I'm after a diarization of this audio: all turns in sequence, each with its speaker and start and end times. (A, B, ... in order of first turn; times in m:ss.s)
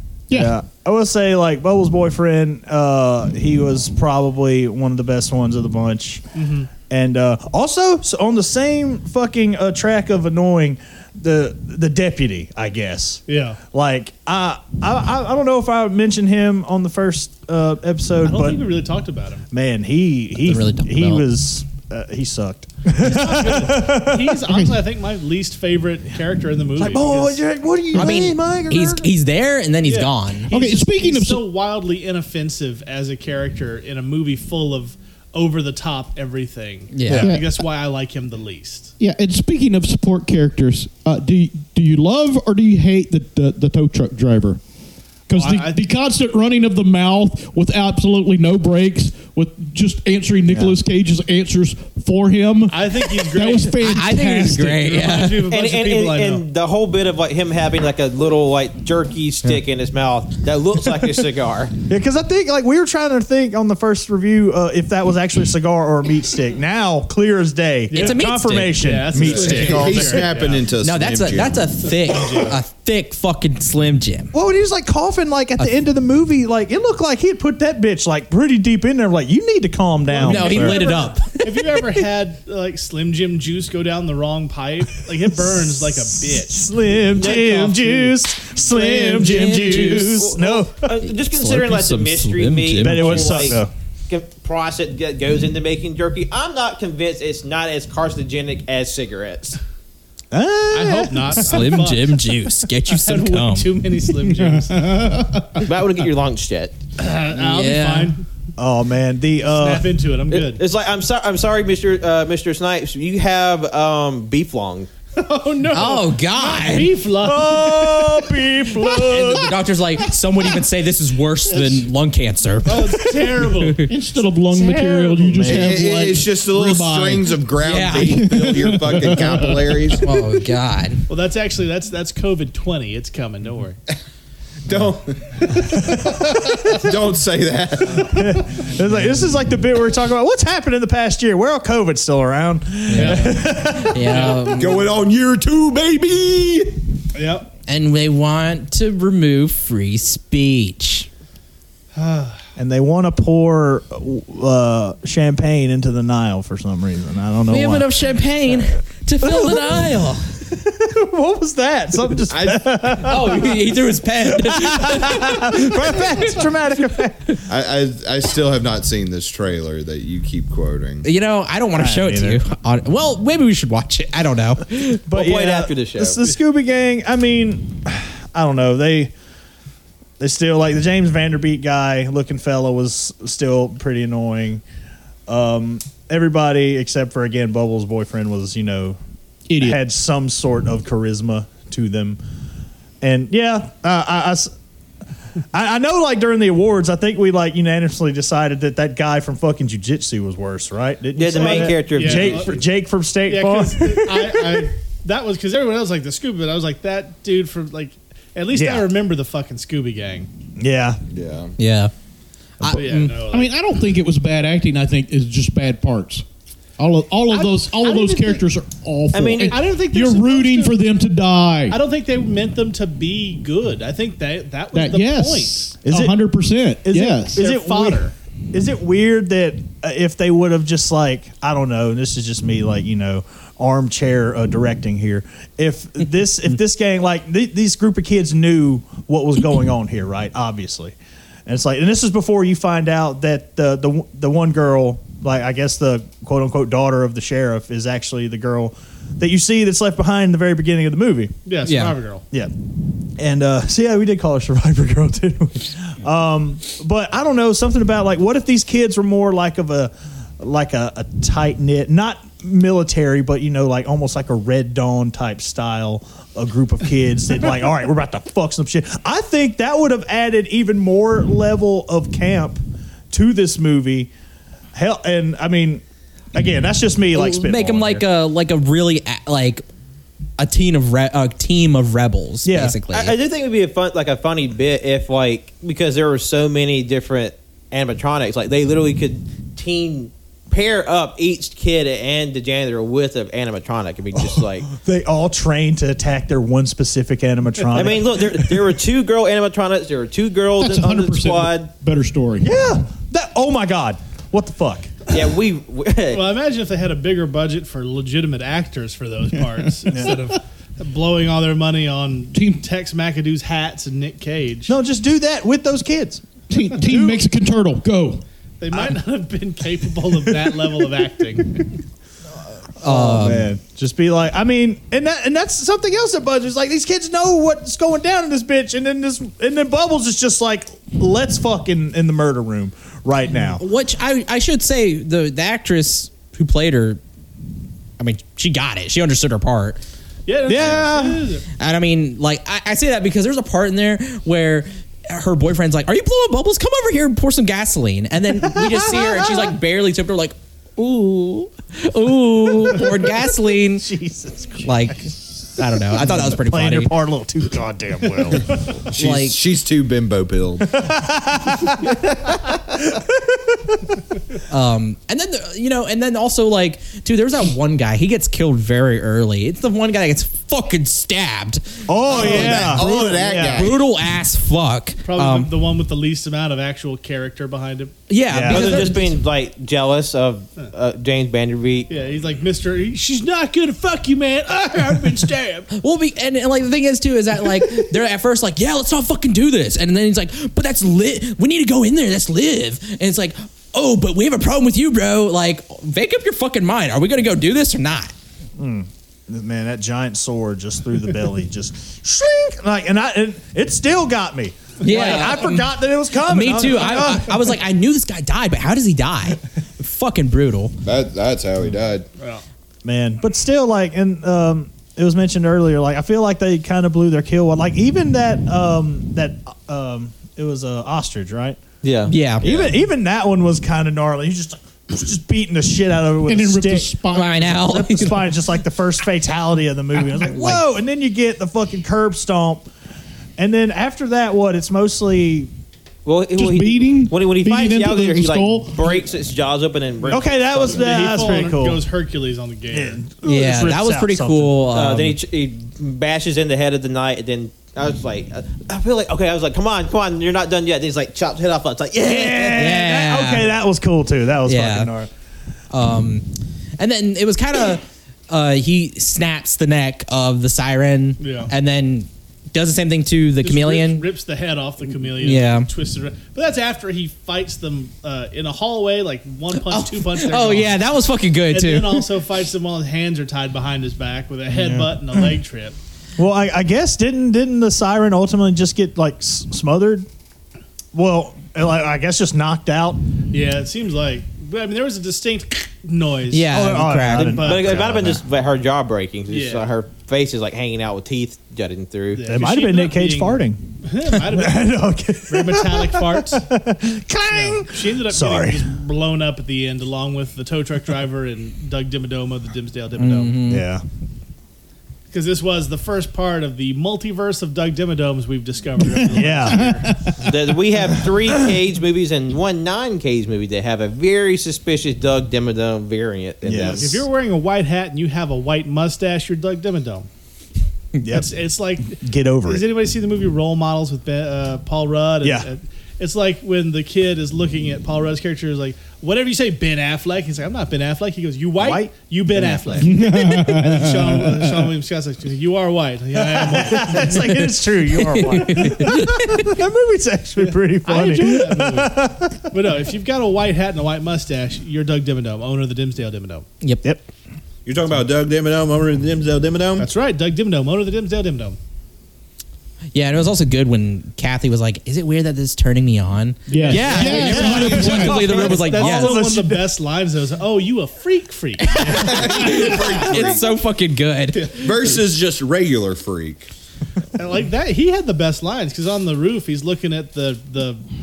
0:00.3-0:00.6 A
0:00.3-0:06.2 B
0:06.4-0:06.7 C
0:06.9-0:18.6 B
0:13.3-0:13.6 C
0:18.2-0:19.5 C
0:19.5-0:24.4 B
0:20.4-0:21.3 D
0:23.0-0:27.4 C
0:24.5-0:24.8 A
0:26.8-0:29.1 B
0:27.9-0:30.5 D
0:29.8-0:38.9 C
0:30.5-0:31.4 A
0:36.9-0:37.3 D
0:37.1-0:37.4 B
0:37.2-0:37.5 A
0:39.0-0:44.6 A
0:45.3-0:54.8 A
0:45.3-0:45.8 C
0:50.5-0:50.8 B
0:52.7-0:53.9 C
0:53.8-0:55.4 D
0:54.6-0:56.4 C
0:55.5-1:01.7 E
1:01.9-1:10.3 B
1:07.9-1:10.6 C
1:07.9-1:08.8 D
1:09.2-1:11.7 F
1:10.8-1:14.3 D
1:11.9-1:12.6 C
1:14.3-1:21.1 B
1:20.1-1:28.2 C
1:20.2-1:21.5 D
1:25.3-1:31.0 B
1:27.2-1:27.8 E
1:28.7-1:29.9 C
1:29.1-1:30.3 D
1:29.6-1:39.6 E
1:31.0-1:33.6 D
1:32.8-1:33.7 B
1:40.3-1:41.8 B
1:40.7-1:42.2 C
1:41.4-1:43.7 D
1:42.9-1:45.0 C
1:44.3-1:45.6 A
1:45.6-1:46.8 E
1:47.0-1:48.2 C
1:47.4-1:48.1 D
1:48.6-1:49.9 B
1:49.4-1:50.6 C
1:50.3-1:54.9 E
1:55.2-1:59.2 C
1:55.7-1:56.9 D
1:57.2-1:59.6 B
1:59.0-2:03.9 D
2:02.6-2:03.9 C
2:03.9-2:07.4 A
2:04.6-2:05.1 C
2:04.7-2:05.9 B
2:05.4-2:10.1 F
2:07.6-2:08.4 D
2:08.0-2:09.8 A
2:09.9-2:11.0 D
2:11.1-2:13.8 C
2:14.7-2:18.4 F
2:15.6-2:16.6 B
2:18.0-2:24.2 B
2:22.9-2:24.9 D
2:23.0-2:23.4 C
2:24.0-2:24.6 C
2:24.6-2:26.8 F
2:27.1-2:27.5 C
2:27.7-2:31.1 D
2:31.9-2:32.4 C
2:32.6-2:37.9 B
2:37.5-2:40.3 D
2:39.2-2:43.6 B
2:42.3-2:42.7 F
2:42.9-2:46.2 D
2:44.2-2:47.4 B
2:47.4-2:51.1 F
2:51.0-2:55.0 D
2:51.7-2:52.4 B
2:55.1-2:59.1 B
2:55.1-2:56.2 E
3:00.2-3:04.6 B
3:05.3-3:09.0 B
3:09.5-3:09.8 A
3:09.6-3:12.2 B
3:13.0-3:14.5 B
3:15.5-3:24.7 B
3:21.1-3:22.5 E
3:21.3-3:22.6 C
3:23.3-3:30.3 C
3:28.5-3:28.9 B
3:30.6-3:31.0 B
3:31.1-3:31.5 F
3:31.6-3:31.9 D
3:32.6-3:33.1 D
3:32.7-3:33.5 C
3:33.3-3:36.2 A
3:36.8-3:41.8 A
3:37.3-3:38.4 C
3:39.1-3:39.6 E
3:39.5-3:40.8 C
3:41.7-3:45.6 C
3:44.7-3:47.4 A
3:45.8-3:46.2 B
3:46.8-4:11.3 B
3:47.4-3:48.1 C
4:11.4-4:12.2 C
4:11.6-4:12.0 D
4:13.2-4:34.1 B
4:34.7-4:35.8 B
4:36.3-4:38.0 B
4:37.1-4:39.6 D
4:40.4-4:43.2 D
4:42.4-4:42.8 B
4:42.9-4:54.7 E
4:54.1-4:58.6 B
4:57.7-5:01.7 E
5:00.6-5:02.5 A
5:02.4-5:04.9 B
5:05.1-5:06.2 E
5:06.1-5:14.8 C
5:12.3-5:12.6 A
5:14.7-5:16.2 B
5:16.5-5:18.2 A
5:16.8-5:17.2 B
5:18.6-5:21.8 C
5:22.8-5:23.5 D
5:22.8-5:33.6 B
5:33.6-5:37.0 D
5:38.0-5:39.8 D
5:40.3-5:41.5 C
5:40.4-5:41.3 B
5:41.6-5:53.9 D
5:48.4-5:49.5 B
5:52.8-5:53.0 B
5:53.8-5:54.8 B
5:54.6-5:56.9 D
5:55.9-5:58.6 B
5:58.8-6:00.8 F
5:58.9-5:59.4 D
6:00.6-6:03.8 B
6:04.5-6:15.5 D
6:11.9-6:13.7 B
6:12.1-6:13.8 F
6:15.0-6:18.0 C
6:18.1-6:19.2 D
6:18.3-6:18.9 B
6:18.5-6:21.9 E
6:21.9-6:25.7 C
6:25.8-6:38.1 D
6:38.6-6:47.6 B
6:44.8-6:50.8 D
6:50.8-6:52.1 F
6:52.2-6:52.4 C
6:52.8-7:01.6 B
7:01.8-7:02.1 E
7:02.1-7:02.5 D
7:02.4-7:07.0 B
7:06.3-7:07.7 A
7:07.1-7:08.3 D
7:07.5-7:12.7 B
7:10.1-7:10.6 D
7:13.4-7:15.5 B
7:16.0-7:20.9 E
7:16.4-7:19.0 A
7:20.1-7:21.8 B
7:20.7-7:23.0 C
7:22.7-7:24.6 B
7:23.2-7:25.2 D
7:24.7-7:32.7 E
7:32.0-7:35.1 B
7:32.6-7:33.5 D
7:34.5-7:34.9 D
7:35.7-7:36.3 D
7:36.8-7:44.0 D
7:41.2-7:41.5 C
7:43.4-7:50.8 C
7:45.2-7:45.7 D
7:49.5-7:52.1 D
7:51.5-7:55.8 C
7:54.5-7:55.3 B
7:56.2-8:00.1 B
8:00.9-8:03.0 B
8:03.3-8:06.6 C
8:06.3-8:07.4 D
8:06.5-8:08.2 B
8:07.1-8:07.8 C
8:07.4-8:12.3 E
8:09.3-8:09.7 C
8:12.1-8:16.5 C
8:12.3-8:18.7 B
8:17.3-8:23.4 C
8:23.0-8:23.6 D
8:23.5-8:23.8 B
8:25.1-8:30.1 C
8:29.1-8:29.7 B
8:29.5-8:30.1 A
8:30.2-8:37.0 E
8:36.4-8:37.0 B
8:36.6-8:40.1 C
8:41.0-8:41.3 B
8:41.1-8:57.3 C
8:41.9-8:42.6 B
8:45.2-8:45.5 B
8:51.6-8:53.3 B
8:52.8-8:54.5 A
8:56.2-9:02.6 B
8:57.9-8:59.5 D
9:00.8-9:06.4 C
9:07.6-9:09.9 F
9:09.8-9:11.6 C
9:12.9-9:19.2 D
9:16.5-9:18.1 A
9:16.5-9:19.7 B
9:16.6-9:22.7 C
9:21.6-9:24.6 D
9:21.9-9:23.5 F
9:24.5-9:26.5 F
9:27.1-9:30.8 C